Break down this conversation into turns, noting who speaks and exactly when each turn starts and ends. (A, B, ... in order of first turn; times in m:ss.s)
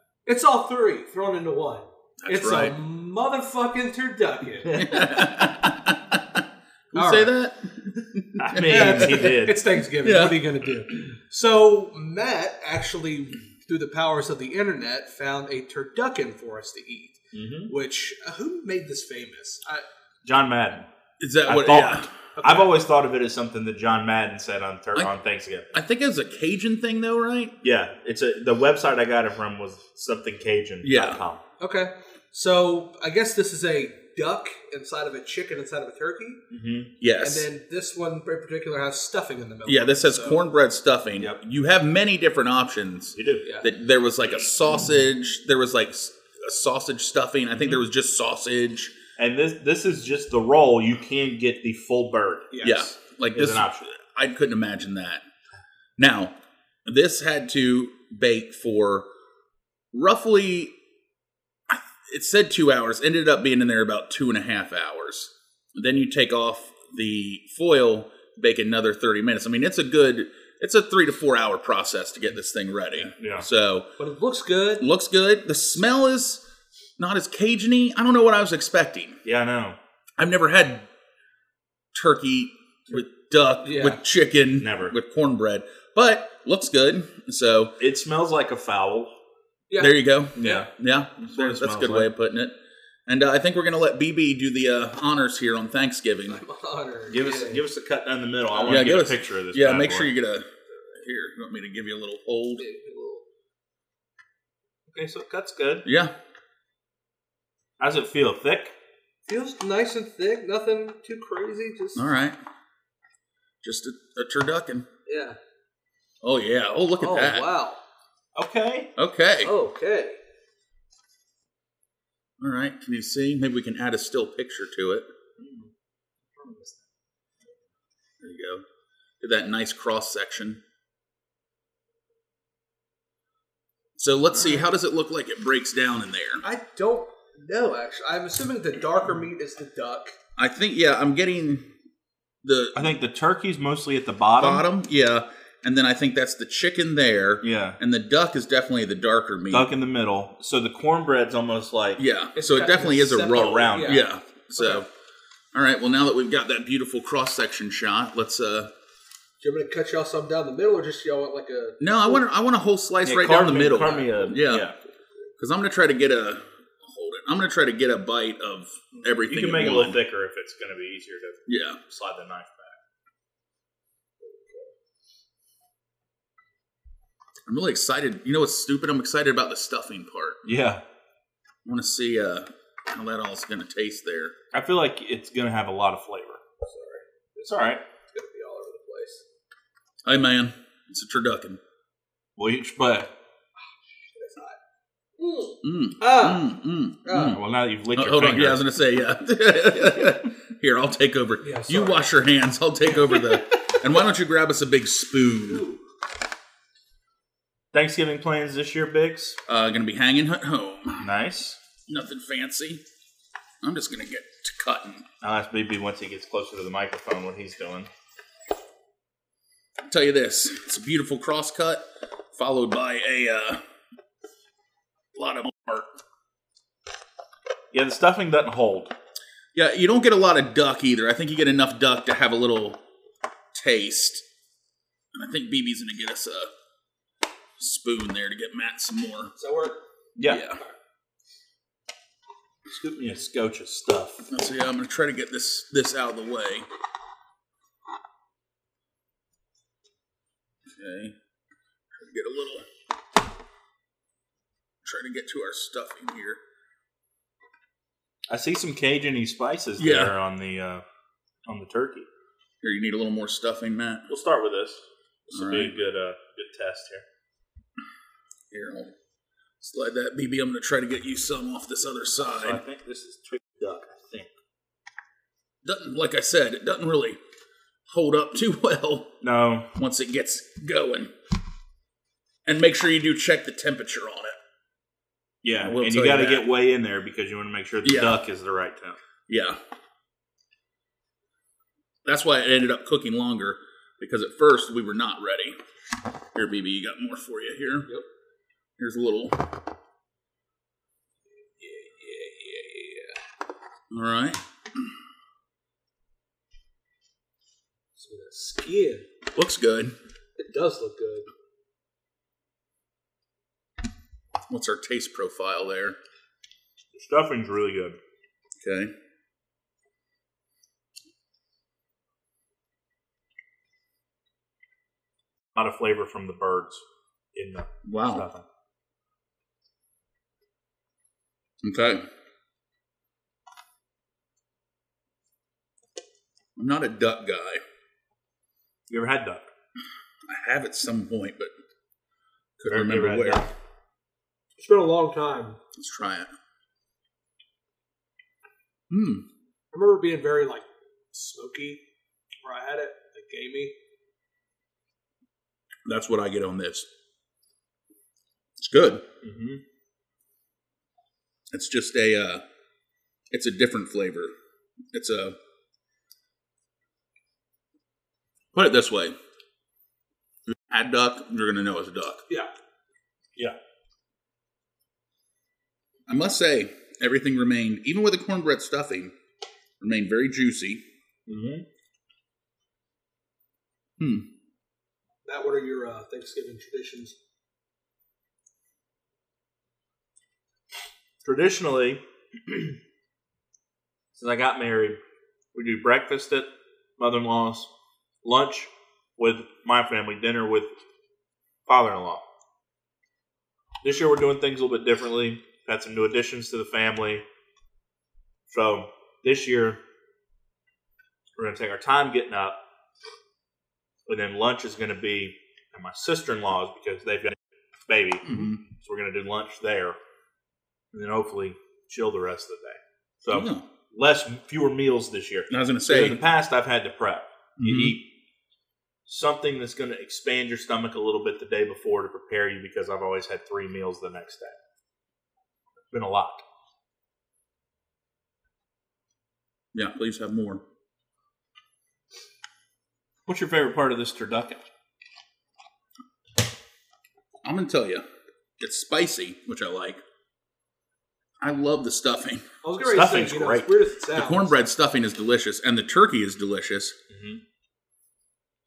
0:00.2-0:04.8 A
0:02.2-0:02.8 B
0:04.6-0:05.3 C
0:04.7-0:09.3 B
0:06.9-0:07.3 A
0:08.4-0:09.6 C
0:08.7-0:19.8 A
0:10.0-0:10.6 B
0:17.3-0:17.7 C
0:20.2-0:20.8 C
0:21.2-0:22.1 B
0:21.4-0:25.7 C
0:22.4-0:22.8 A
0:25.7-0:27.6 B
0:27.6-0:31.4 C
0:30.8-0:31.2 B
0:31.6-0:36.4 A
0:36.5-0:36.9 C
0:37.0-0:37.5 B
0:37.2-0:40.4 A
0:39.6-0:48.9 B
0:43.1-0:43.5 C
0:49.2-0:52.5 C
0:52.5-0:52.9 A
0:52.6-0:55.2 B
0:53.3-0:54.0 C
0:56.0-0:56.3 B
0:56.8-0:59.1 B
0:59.9-1:00.7 B
1:01.7-1:13.9 B
1:13.0-1:13.5 C
1:14.0-1:14.8 A
1:14.8-1:16.4 B
1:17.0-1:19.2 B
1:19.2-1:19.8 C
1:20.2-1:20.9 B
1:21.9-1:27.7 B
1:23.6-1:24.0 A
1:24.6-1:24.9 C
1:27.8-1:29.1 C
1:29.7-1:30.6 A
1:29.8-1:32.5 B
1:30.4-1:32.1 C
1:33.1-1:36.4 B
1:36.3-1:37.6 A
1:37.1-1:40.1 C
1:38.7-1:42.6 B
1:42.6-1:43.2 A
1:44.9-1:45.8 C
1:45.8-1:46.1 B
1:47.8-1:48.7 C
1:49.3-1:52.1 A
1:51.9-1:52.4 B
1:53.6-1:54.8 B
1:55.0-1:55.4 A
1:56.2-1:57.5 B
1:57.0-1:57.8 A
1:58.4-1:58.9 C
1:59.0-1:59.5 B
1:59.4-2:00.2 A
2:02.4-2:05.1 B
2:05.4-2:05.7 C
2:06.3-2:06.8 C
2:08.2-2:08.6 B
2:09.2-2:10.6 B
2:14.0-2:16.4 B
2:14.3-2:14.6 A
2:16.4-2:20.1 A
2:20.4-2:21.7 B
2:22.4-2:22.8 B
2:22.8-2:24.6 C
2:24.4-2:29.7 B
2:27.4-2:27.8 C
2:29.5-2:32.0 C
2:32.0-2:34.9 B
2:32.3-2:34.8 A
2:33.3-2:34.0 C
2:35.5-2:38.7 B
2:39.4-2:42.2 A
2:41.8-2:44.7 B
2:43.0-2:44.8 C
2:43.8-2:44.3 A
2:44.8-2:45.3 A
2:45.4-2:50.0 B
2:49.3-2:52.8 C
2:51.5-2:51.8 B
2:54.2-2:54.7 A
2:57.5-3:00.4 B
3:00.4-3:00.8 C
3:01.6-3:04.3 B
3:04.5-3:06.6 C
3:06.6-3:09.2 A
3:07.4-3:07.8 C
3:10.0-3:11.6 B
3:12.4-3:13.1 C
3:13.7-3:14.6 A
3:15.2-3:17.4 A
3:15.6-3:17.4 B
3:17.2-3:18.6 C
3:17.9-3:25.6 B
3:21.4-3:22.1 A
3:22.9-3:23.7 A
3:25.4-3:25.8 A
3:27.7-3:29.4 C
3:29.5-3:31.1 B
3:31.0-3:31.6 C
3:31.9-3:32.8 B
3:33.6-3:35.0 B
3:35.2-3:37.9 C
3:39.9-3:43.6 B
3:45.1-3:45.9 B
3:47.7-3:48.9 C
3:49.5-3:52.8 B
3:53.5-3:54.2 B
3:55.1-3:56.5 B
3:57.6-3:59.3 B
3:59.4-3:59.8 A
4:00.2-4:00.4 C
4:00.3-4:00.6 B
4:02.7-4:04.3 C
4:04.3-4:06.7 B
4:10.7-4:11.1 B
4:11.9-4:12.7 B
4:14.8-4:16.4 B
4:18.3-4:20.8 C
4:19.8-4:20.1 B
4:21.4-4:22.1 C
4:22.6-4:24.1 B
4:24.1-4:27.0 C
4:25.3-4:25.7 B
4:28.5-4:28.9 B
4:29.6-4:32.6 B
4:32.3-4:34.3 C
4:35.6-4:37.2 B
4:37.9-4:39.1 B
4:39.2-4:39.7 C
4:39.8-4:41.1 B
4:42.4-4:44.3 B
4:45.4-4:49.0 C
4:45.6-4:46.4 B
4:47.8-4:48.2 B
4:49.3-4:49.6 B
4:52.0-4:55.6 B
4:56.3-4:57.9 B
4:58.8-4:59.5 B
5:01.6-5:03.2 A
5:03.9-5:04.4 B
5:08.0-5:09.0 A
5:09.3-5:10.0 B
5:10.4-5:11.3 A
5:14.5-5:16.0 B
5:16.9-5:18.0 C
5:18.6-5:18.9 B
5:25.5-5:28.4 C
5:27.8-5:28.3 B
5:31.6-5:32.0 B
5:36.6-5:37.6 B
5:38.9-5:39.4 C
5:40.3-5:41.5 B
5:42.6-5:43.5 B
5:42.7-5:43.5 C
5:44.6-5:45.6 A
5:45.7-5:46.3 B
5:48.9-5:49.2 B
5:49.7-5:51.8 A
5:52.4-5:53.7 A
5:55.8-5:56.9 B
5:58.6-5:59.0 B
5:59.2-5:59.6 C
6:01.5-6:02.4 B
6:03.3-6:04.3 B
6:04.9-6:05.4 B
6:08.5-6:09.1 B
6:10.7-6:12.2 B
6:16.1-6:19.1 B
6:19.8-6:20.8 B
6:21.3-6:21.6 C
6:24.0-6:24.3 B
6:25.2-6:27.2 A
6:31.2-6:32.8 C
6:34.1-6:35.0 C
6:35.5-6:36.5 C
6:37.0-6:37.7 C
6:38.2-6:40.7 C
6:41.7-6:42.2 C
6:43.8-6:47.2 C
6:48.5-6:49.8 C
6:51.4-6:52.6 C
6:54.1-6:57.3 C
6:57.9-7:00.0 C
6:58.2-6:58.6 B
7:00.9-7:08.0 C
7:03.3-7:03.6 B
7:05.5-7:06.2 B
7:07.6-7:08.0 B
7:09.0-7:14.6 C
7:15.9-7:16.4 C
7:19.7-7:20.6 B
7:23.3-7:24.6 C
7:27.4-7:28.0 B
7:28.6-7:30.0 B
7:31.4-7:32.4 B
7:32.6-7:34.6 A
7:32.8-7:33.7 C
7:34.1-7:36.9 B
7:37.1-7:37.4 C